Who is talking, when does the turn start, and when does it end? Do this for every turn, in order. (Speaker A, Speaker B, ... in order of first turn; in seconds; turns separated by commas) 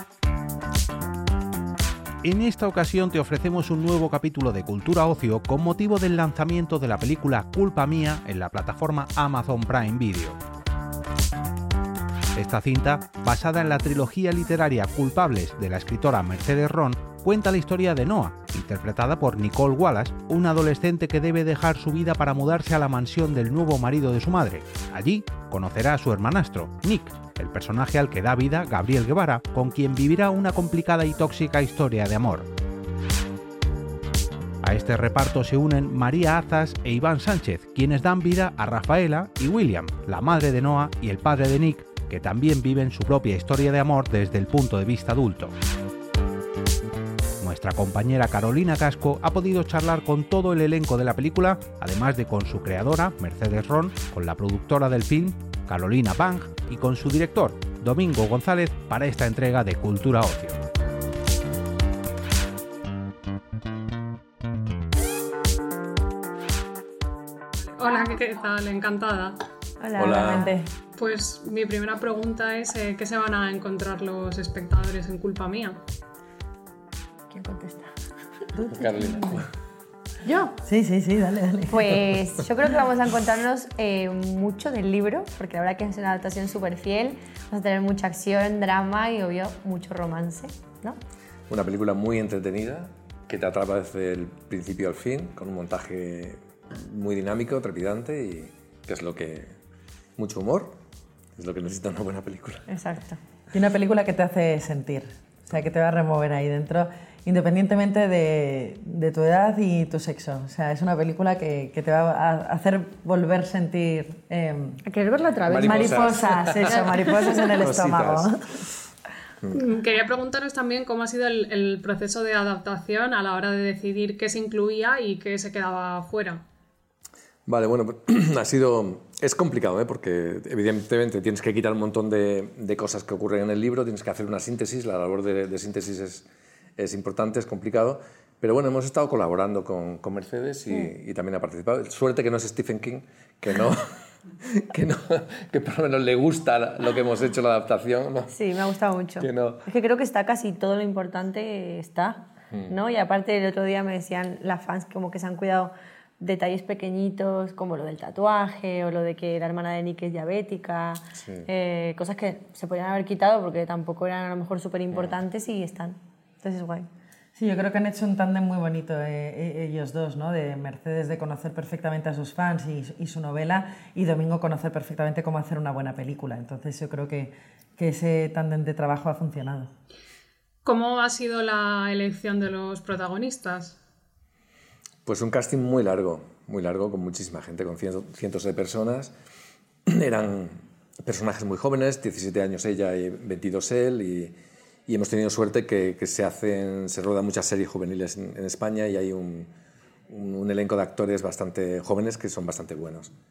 Speaker A: 2.2-10.4, Speaker A: 12.3-32.5, Speaker A: 34.6-45.5, Speaker A: 47.4-60.6, Speaker B: 67.7-69.4, Speaker C: 69.8-70.5, Speaker D: 70.0-70.5, Speaker E: 70.0-70.6, Speaker B: 71.0-75.8, Speaker C: 77.3-77.9, Speaker E: 78.6-79.4, Speaker D: 78.8-79.4, Speaker C: 80.2-80.5, Speaker E: 80.5-82.0, Speaker C: 81.7-91.0, Speaker D: 91.5-99.5, Speaker D: 100.2-100.8, Speaker D: 101.4-102.6, Speaker C: 102.7-103.2, Speaker E: 103.5-114.8, Speaker C: 114.8-117.7, Speaker D: 115.5-117.0, Speaker E: 115.6-118.3, Speaker D: 117.6-118.3, Speaker B: 119.5-126.4, Speaker D: 127.5-136.2, Speaker D: 136.8-143.8, Speaker D: 144.4-148.3, Speaker C: 148.3-166.9, Speaker D: 149.2-149.6, Speaker D: 161.2-161.5, Speaker E: 167.3-179.7, Speaker B: 180.6-183.8, Speaker D: 185.1-189.1, Speaker D: 189.9-194.3, Speaker D: 194.9-199.5, Speaker D: 200.1-203.1